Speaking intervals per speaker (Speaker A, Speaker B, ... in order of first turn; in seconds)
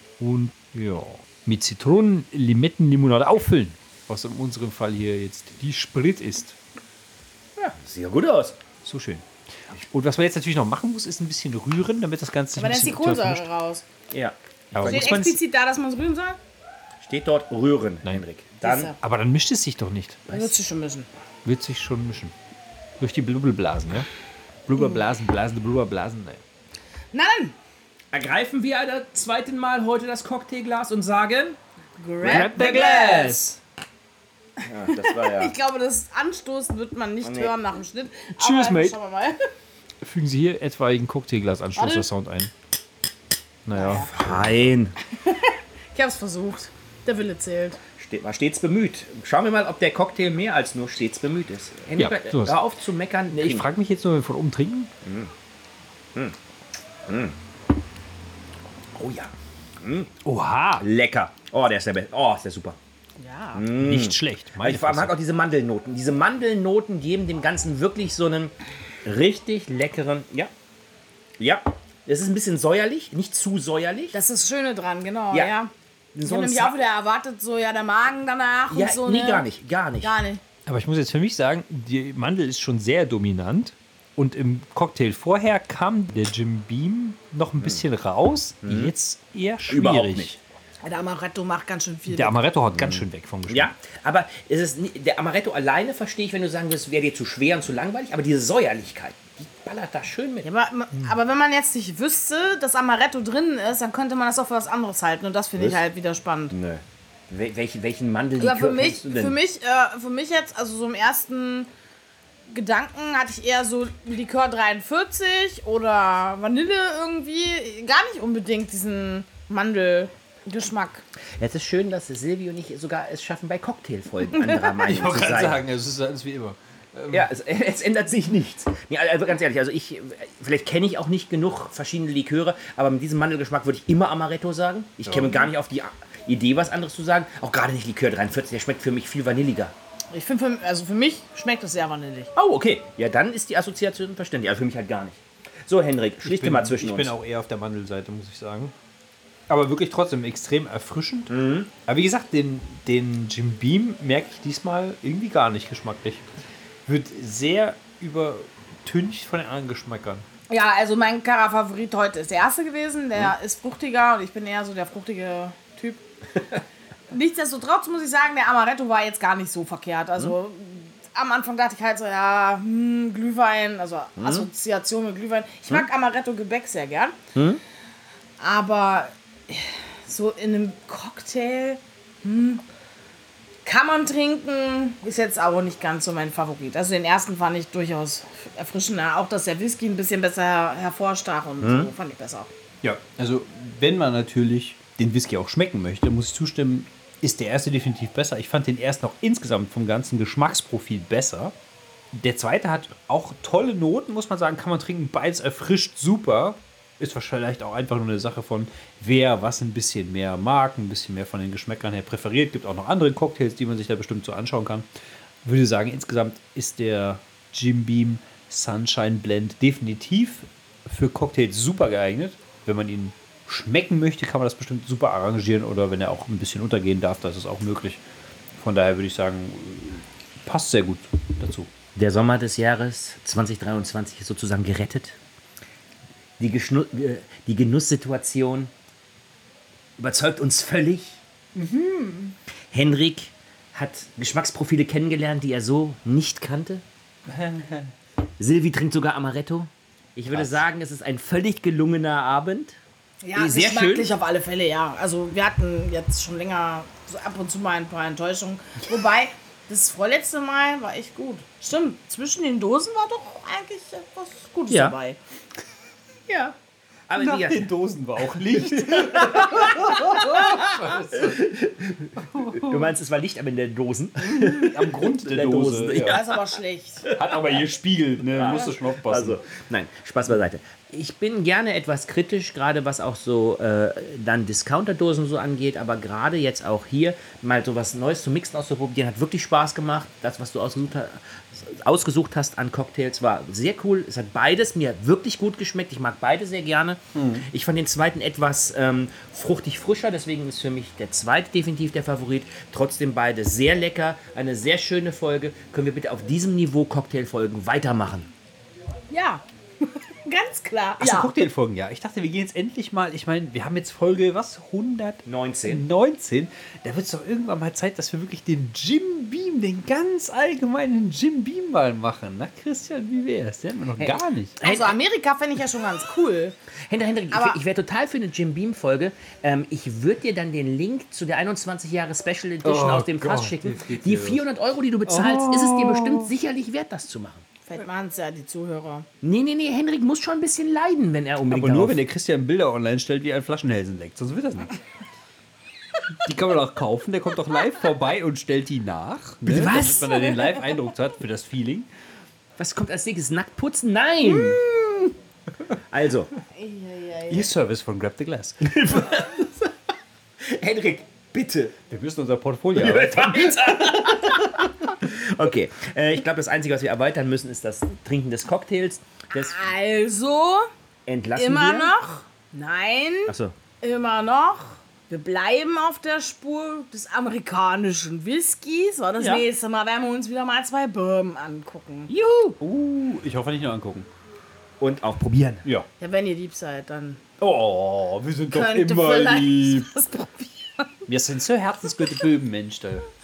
Speaker A: 0.2-6.6, 8.8-13.4, 14.7-15.4, 19.0-20.3, 21.4-22.3, 23.0-24.1, 24.7-26.4, 32.2-33.6, 38.4-39.0, 40.0-42.5, 43.7-44.5, 52.0-52.6, 53.3-54.9, 60.2-60.9, 63.8-65.1, 80.7-90.4, 92.1-93.7, 124.8-127.3, 135.1-135.5, 146.2-148.7, 149.5-151.3, 151.9-156.2, 156.9-160.3, 192.8-201.5, 202.1-214.9, 215.4-228.0, 228.6-231.7, 241.6-242.3, 247.3-247.9, 267.2-271.6, 272.2-272.9, 274.2-276.2, 277.1-279.4, 297.1-297.5, 311.0-324.6, 332.6-334.5, 335.1-336.3, 341.5-344.8, 346.2-351.9, 354.4-355.1, 357.3-358.8, 361.9-364.7, 382.6-384.1, 387.4-389.9, 391.1-393.1
Speaker B: 7.6-8.6, 14.1-15.2, 17.0-18.9, 28.1-31.6, 32.2-33.5, 34.6-35.5, 37.2-37.5, 44.1-45.0, 48.0-53.7, 55.0-55.3, 57.1-57.4, 58.9-60.1, 60.8-62.8, 63.5-68.5, 69.0-70.5, 71.4-74.2, 76.1-76.8, 78.7-80.2, 88.6-88.9, 89.7-90.4, 92.8-100.5, 106.5-109.4, 121.4-125.6, 127.1-139.7, 142.4-147.2, 151.3-151.7, 174.2-174.5, 177.3-177.6, 191.6-191.9, 231.9-235.2, 236.4-238.7, 240.0-241.2, 242.7-246.8, 248.4-252.8, 253.4-254.1, 264.7-265.0, 267.1-267.7, 268.4-276.4, 277.1-277.6, 278.2-308.3, 315.2-315.9, 324.0-324.9, 326.9-337.4, 339.2-342.0, 349.5-350.2, 352.6-354.7, 355.9-356.3, 358.6-359.7, 360.4-361.8, 362.7-369.6, 371.1-372.0, 373.3-373.6, 379.2-379.4, 382.1-382.6, 384.8-385.7
Speaker C: 12.6-13.8, 14.8-16.4, 18.6-19.0, 20.3-21.1, 27.1-27.6, 32.0-33.4, 34.6-39.4, 41.8-42.1, 43.7-44.1, 45.1-47.8, 63.2-63.7, 74.1-75.7, 76.2-79.5, 80.0-80.4, 90.8-92.3, 100.4-106.5, 108.4-111.7, 112.5-121.0, 124.3-124.7, 140.1-142.3, 160.5-166.0, 167.1-177.2, 178.4-182.6, 183.7-192.5, 253.2-265.2, 266.3-266.6, 276.0-277.1, 309.1-309.4, 310.2-311.4, 324.6-326.6, 327.3-327.6, 337.7-339.1, 356.5-357.5, 369.3-370.7, 371.4-382.1, 386.0-387.2, 388.5-390.9